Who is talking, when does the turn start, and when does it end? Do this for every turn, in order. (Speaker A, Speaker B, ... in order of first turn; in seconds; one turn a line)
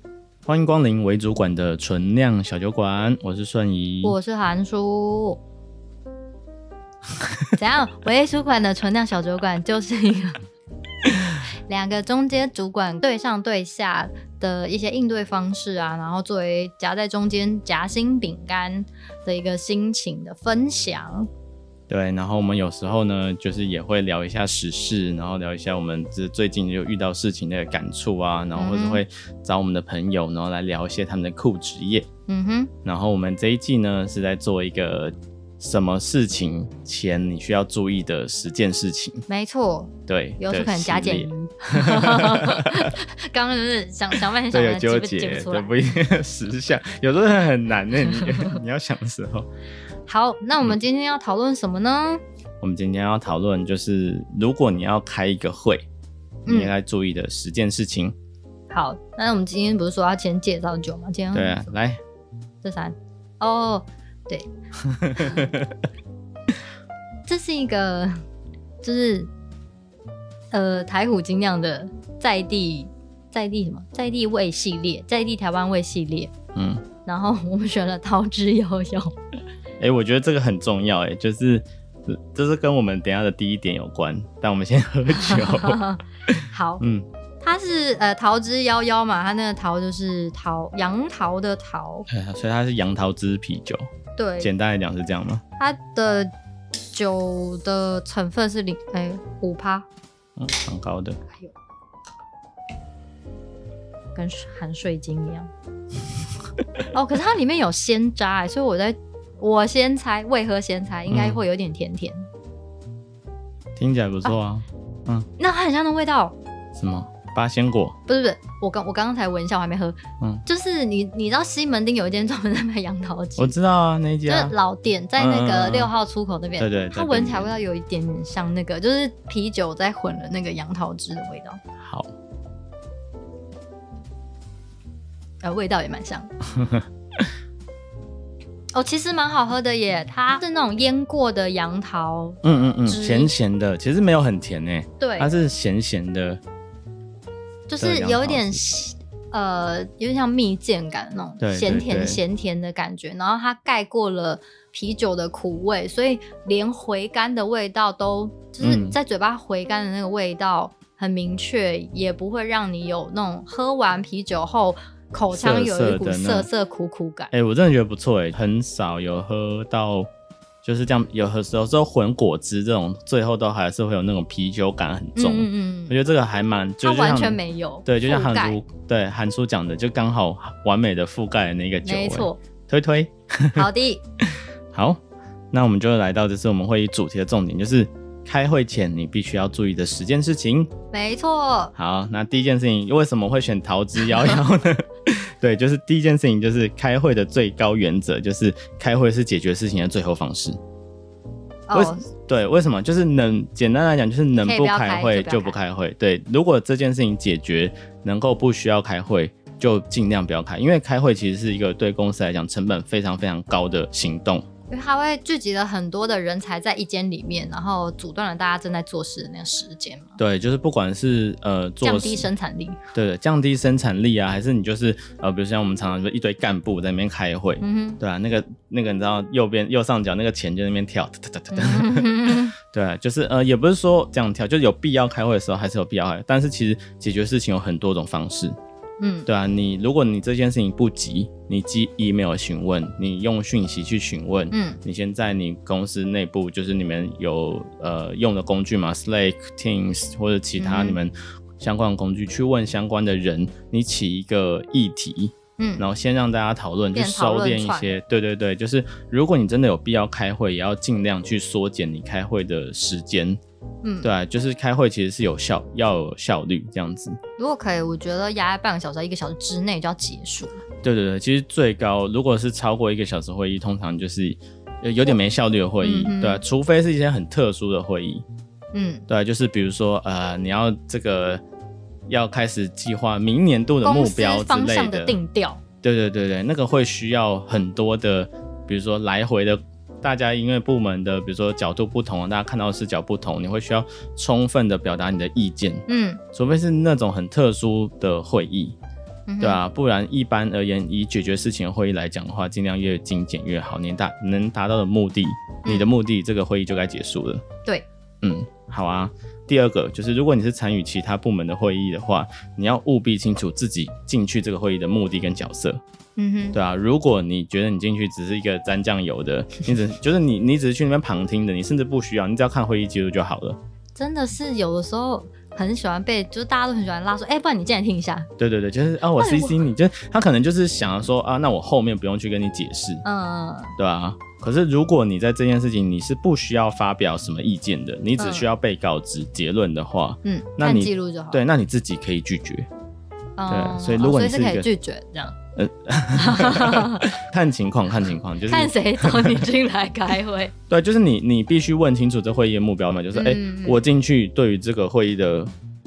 Speaker A: 0.5-4.2
Speaker B: 4.0-5.4
Speaker B: 7.5-10.4
Speaker B: 11.3-21.3
Speaker A: 21.9-32.1
Speaker B: 28.6-29.0
Speaker B: 32.3-32.7
Speaker A: 32.9-39.2
Speaker B: 39.3-45.8
Speaker A: 40.1-42.9
Speaker A: 44.5-49.5
Speaker B: 50.1-52.2
Speaker A: 52.6-55.9
Speaker B: 56.5-56.7
Speaker A: 56.5-58.1
Speaker B: 58.7-61.6
Speaker A: 61.3-62.0
Speaker B: 62.6-64.5
Speaker A: 64.9-65.8
Speaker B: 67.3-68.1
Speaker B: 68.8-69.3
Speaker B: 70.5-76.3
Speaker A: 76.5-76.8
Speaker B: 77.0-79.1
Speaker A: 79.8-87.1
Speaker B: 85.1-86.8
Speaker B: 87.4-92.1
Speaker A: 92.1-93.9
Speaker B: 94.2-94.5
Speaker A: 94.4-95.4
Speaker B: 95.6-96.3
Speaker B: 96.9-99.9
Speaker A: 100.4-101.2
Speaker B: 104.2-105.5
Speaker B: 106.9-112.3
Speaker A: 111.1-111.4
Speaker A: 113.8-115.3
Speaker B: 115.4-116.4
Speaker A: 116.8-118.0
Speaker B: 118.1-123.5
Speaker A: 123.4-124.6
Speaker B: 124.3-131.6
Speaker A: 125.2-125.9
Speaker A: 126.6-127.5
Speaker A: 131.8-132.1
Speaker B: 135.4-136.3
Speaker A: 136.6-136.8
Speaker B: 138.7-143.3
Speaker A: 142.4-146.4
Speaker B: 145.0-145.3
Speaker B: 147.7-167.3
Speaker A: 147.8-148.6
Speaker A: 151.4-152.2
Speaker A: 158.6-159.0
Speaker A: 165.3-166.5
Speaker A: 167.3-170.1
Speaker A: 170.6-183.7
Speaker B: 175.2-175.9
Speaker B: 176.8-178.6
Speaker B: 181.8-182.4
Speaker B: 183.6-184.0
Speaker A: 184.7-185.0
Speaker A: 185.5-190.7
Speaker B: 190.9-191.7
Speaker A: 191.8-200.6
Speaker B: 201.7-202.0
Speaker A: 201.7-214.5
Speaker B: 204.3-205.6
Speaker B: 214.7-220.2
Speaker A: 220.2-222.3
Speaker B: 221.8-222.8
Speaker A: 222.9-238.6
Speaker B: 227.6-228.0
Speaker B: 231.5-232.5
Speaker B: 239.0-239.3
Speaker A: 239.3-263.4
Speaker B: 244.5-244.8
Speaker B: 250.6-251.0
Speaker B: 255.6-255.8
Speaker B: 256.9-257.9
Speaker B: 263.8-264.1
Speaker A: 264.0-267.2
Speaker B: 267.4-270.6
Speaker A: 270.8-278.2
Speaker B: 275.8-276.4
Speaker B: 278.7-279.0
Speaker A: 279.1-281.4
Speaker A: 282.1-285.2
Speaker B: 283.8-285.6
Speaker A: 285.8-298.8
Speaker B: 295.9-296.2
Speaker B: 299.3-299.6
Speaker A: 299.4-307.4
Speaker A: 308.2-315.8
Speaker B: 316.2-316.6
Speaker A: 316.6-323.6
Speaker B: 324.0-328.3
Speaker A: 328.4-333.0
Speaker B: 329.2-329.6
Speaker B: 333.0-333.8
Speaker A: 333.8-342.7
Speaker B: 338.2-338.5
Speaker B: 340.2-341.4
Speaker B: 343.4-345.4
Speaker A: 343.5-344.7
Speaker A: 345.6-349.4
Speaker B: 346.2-347.1
Speaker B: 348.5-350.5
Speaker A: 350.7-355.5
Speaker B: 353.1-353.9